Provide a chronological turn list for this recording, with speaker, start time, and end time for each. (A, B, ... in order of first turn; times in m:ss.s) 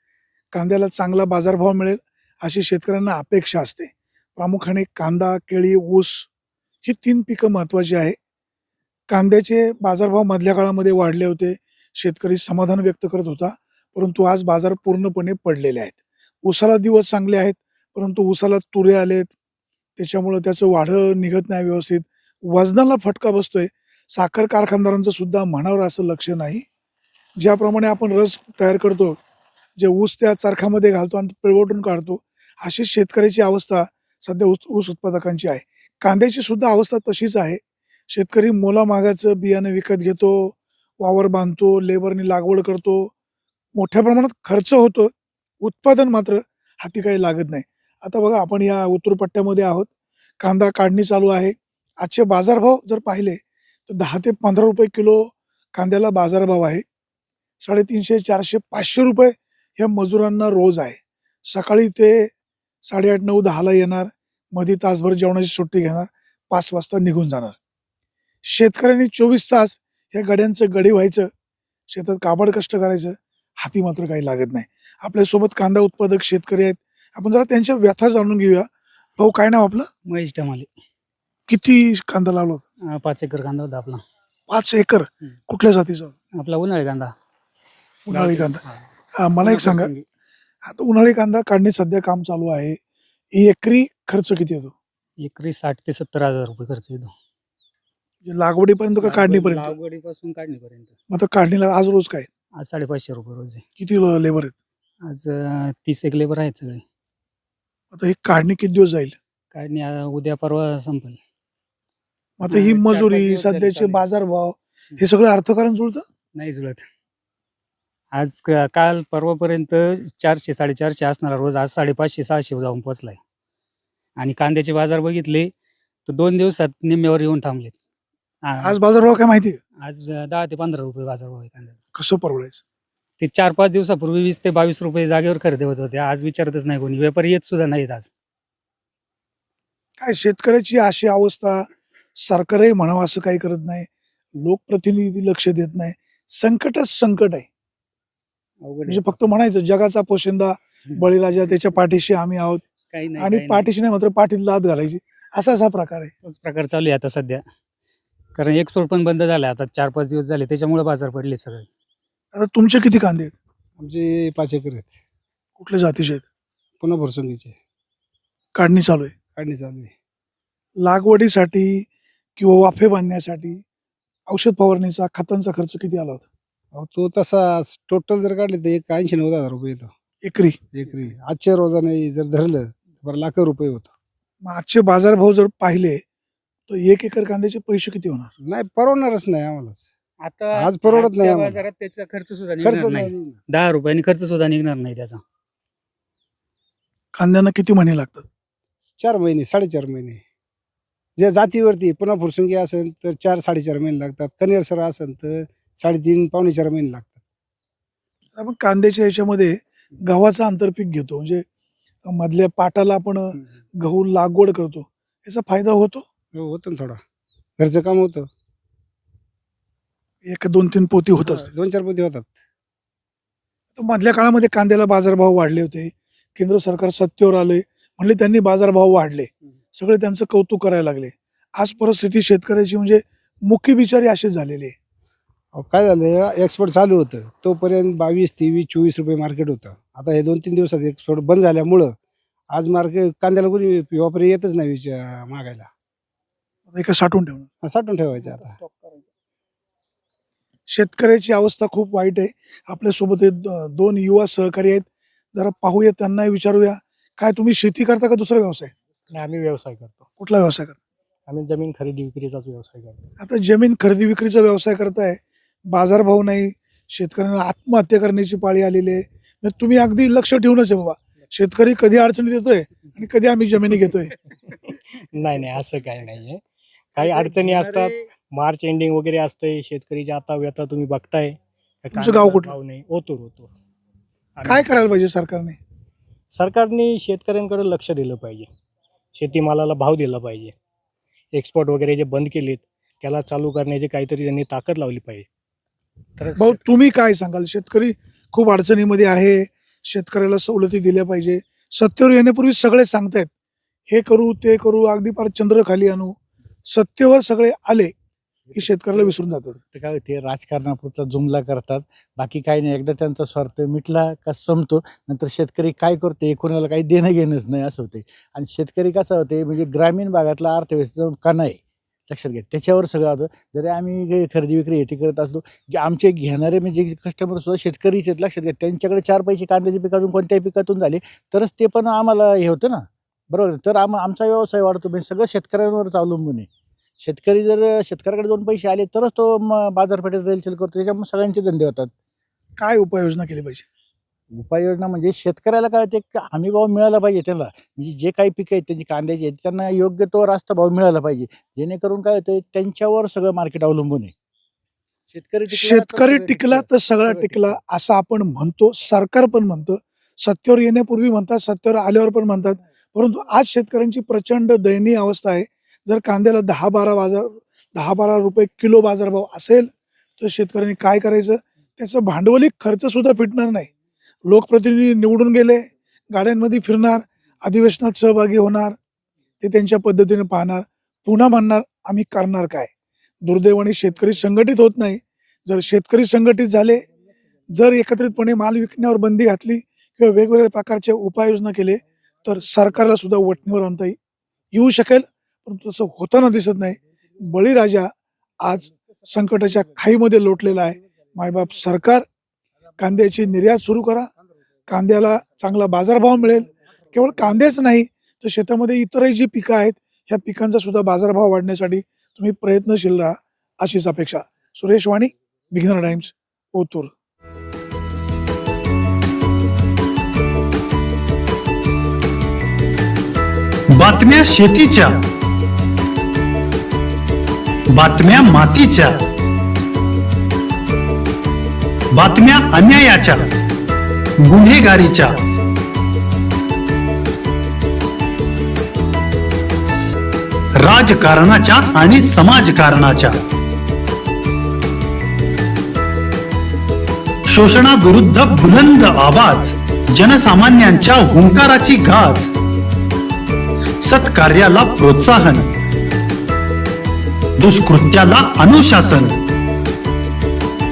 0:00.5-0:06.3 A
0:06.8-0:08.2 A
0:09.1-0:19.3 A
0:20.0-0:26.6 A
0:27.4-0:29.2 A
0:29.8-0:43.1 A
0:43.7-0:49.9 A
0:50.4-0:56.8 A
0:57.6-1:02.3 A
1:02.8-1:07.6 A
1:08.4-1:11.3 A
1:11.9-1:19.9 A
1:20.0-1:20.7 B
1:21.5-1:22.6 A
1:22.9-1:24.0 B
1:24.5-1:26.1 A
1:26.3-1:27.1 B
1:28.1-1:28.6 A
1:28.1-1:28.5 C
1:29.2-1:29.9 A
1:29.4-1:29.9 B
1:30.6-1:32.8 A
1:33.3-1:34.7 A
1:35.2-1:37.1 B
1:38.2-1:39.7 A
1:39.0-1:40.9 B
1:41.1-1:42.3 A
1:42.6-1:43.6 B
1:43.8-1:44.5 A
1:45.0-1:46.8 B
1:47.9-1:49.1 A
1:49.5-1:51.2 B
1:52.4-1:56.0 A
1:52.5-1:54.1 B
1:56.3-1:56.8 B
1:58.1-2:03.2 B
2:04.2-2:05.5 B
2:06.0-2:07.7 B
2:08.4-2:08.8 B
2:08.6-2:09.6 A
2:09.8-2:11.8 B
2:12.0-2:12.6 A
2:13.2-2:18.1 B
2:20.0-2:21.6 A
2:22.2-2:23.9 A
2:24.4-2:27.5 A
2:28.6-2:29.4 B
2:28.9-2:32.6 A
2:30.9-2:31.4 B
2:32.9-2:33.7 B
2:33.2-2:36.1 A
2:36.2-2:37.4 B
2:38.3-2:41.7 B
2:42.3-2:43.3 A
2:43.8-2:45.0 D
2:45.6-2:46.2 A
2:46.8-2:47.6 D
2:48.5-2:49.2 A
2:49.3-2:49.9 D
2:50.8-2:53.6 A
2:54.3-2:56.2 A
2:56.7-2:59.9 D
3:00.2-3:00.6 A
3:00.7-3:03.9 D
3:04.4-3:06.0 A
3:06.7-3:08.3 A
3:08.4-3:09.9 D
3:10.2-3:15.2 B
3:10.6-3:11.6 D
3:12.6-3:13.4 D
3:17.1-3:18.2 A
3:19.0-3:20.2 D
3:21.2-3:27.2 D
3:28.4-3:31.4 A
3:32.0-3:36.1 A
3:36.3-3:37.0 D
3:37.6-3:38.3 D
3:40.2-3:41.4 A
3:41.2-3:42.3 D
3:43.8-3:54.7 A
3:55.5-4:01.9 D
4:02.5-4:05.7 D
4:06.7-4:07.5 A
4:07.6-4:08.6 D
4:10.7-4:18.7 A
4:19.1-4:20.1 C
4:20.2-4:20.8 A
4:21.3-4:23.1 C
4:23.2-4:25.2 A
4:25.7-4:34.1 A
4:34.5-4:36.4 C
4:36.9-4:43.5 C
4:42.0-4:42.5 A
4:44.4-4:44.9 C
4:44.4-4:45.6 A
4:46.3-4:48.5 C
4:49.1-4:50.5 C
4:51.3-4:55.3 C
4:56.2-4:56.6 C
4:56.3-5:03.3 A
5:03.9-5:06.2 A
5:06.7-5:07.9 A
5:08.5-5:36.5 E
5:08.5-5:09.6 A
5:37.0-5:41.9 E
5:42.6-5:43.6 A
5:44.3-5:54.1 E
5:55.1-5:57.6 E
5:55.5-6:13.7 A
6:14.2-6:18.8 A
6:19.4-6:22.7 A
6:23.2-6:26.8 A
6:27.5-6:34.0 A
6:34.5-6:37.9 A
6:38.4-6:42.0 A
6:42.8-6:44.1 A
6:44.7-6:56.9 A
7:03.7-7:05.0 F
7:07.7-7:09.0 F
7:11.9-7:13.3 F
7:14.2-7:15.2 F
7:20.6-7:23.2 F
7:27.3-7:32.3 F
7:33.8-7:35.5 F
7:37.4-7:39.2 F